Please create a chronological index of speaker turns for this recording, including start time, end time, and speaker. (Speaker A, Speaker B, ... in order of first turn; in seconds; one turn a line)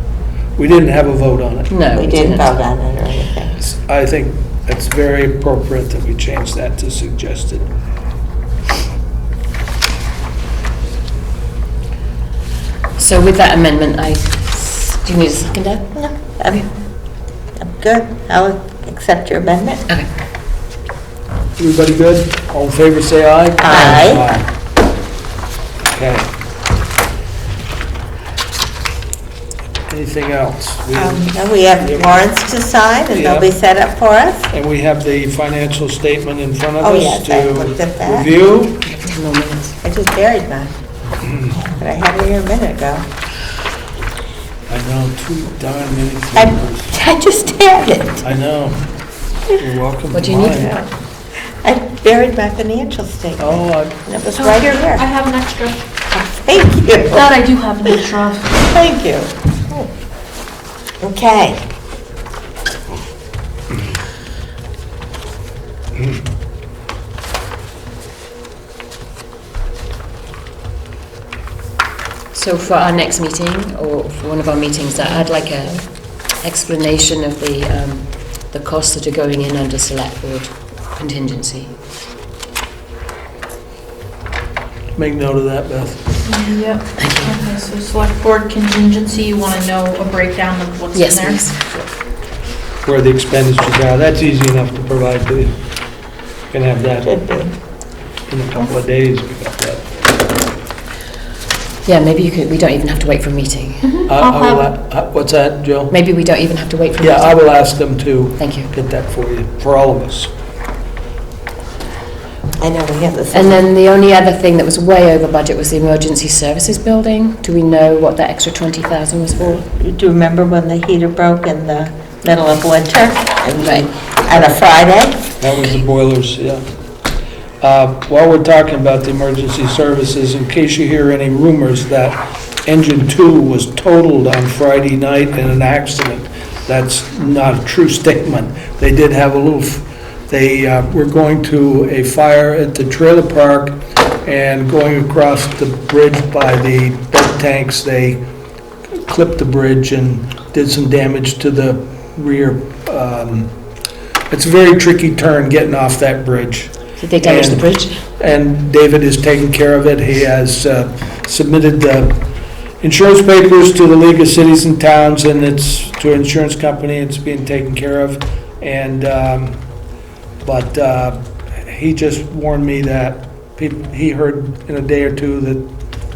Speaker A: 0.6-1.7
Speaker B: 1.7-2.6
Speaker C: 1.9-3.6
Speaker A: 3.6-7.7
Speaker B: 13.0-15.9
Speaker C: 15.9-16.7
Speaker C: 17.6-19.8
Speaker A: 21.6-24.5
Speaker C: 23.6-24.3
Speaker A: 25.8-26.3
Speaker A: 29.9-32.3
Speaker C: 30.9-34.5
Speaker A: 33.1-33.5
Speaker A: 34.5-38.9
Speaker C: 36.8-38.3
Speaker B: 39.0-39.8
Speaker C: 39.8-40.8
Speaker C: 41.5-43.1
Speaker A: 44.7-47.0
Speaker C: 46.3-48.2
Speaker A: 48.2-48.9
Speaker A: 49.5-50.7
Speaker B: 50.1-50.7
Speaker C: 50.5-50.9
Speaker C: 51.6-55.1
Speaker A: 53.4-54.0
Speaker D: 54.3-55.9
Speaker C: 56.1-57.3
Speaker D: 57.1-58.6
Speaker C: 58.6-59.9
Speaker C: 61.0-61.6
Speaker B: 72.3-81.7
Speaker C: 75.0-75.8
Speaker A: 84.9-86.2
Speaker D: 86.2-91.8
Speaker B: 87.0-87.4
Speaker B: 90.9-91.5
Speaker A: 92.8-95.5
Speaker A: 96.5-97.1
Speaker C: 97.0-97.5
Speaker A: 98.3-99.9
Speaker B: 101.8-104.0
Speaker D: 103.8-104.7
Speaker A: 104.1-105.9
Speaker B: 105.9-107.6
Speaker A: 107.0-110.3
Speaker B: 108.4-108.7
Speaker C: 112.6-113.6
Speaker B: 113.3-119.6
Speaker C: 119.6-125.3
Speaker B: 123.6-123.9
Speaker A: 125.4-126.6
Speaker A: 127.6-148.2
Speaker A: 149.0-153.5
Speaker A: 154.3-162.2
Speaker B: 157.0-158.0
Speaker A: 162.8-169.6
Speaker A: 170.4-175.7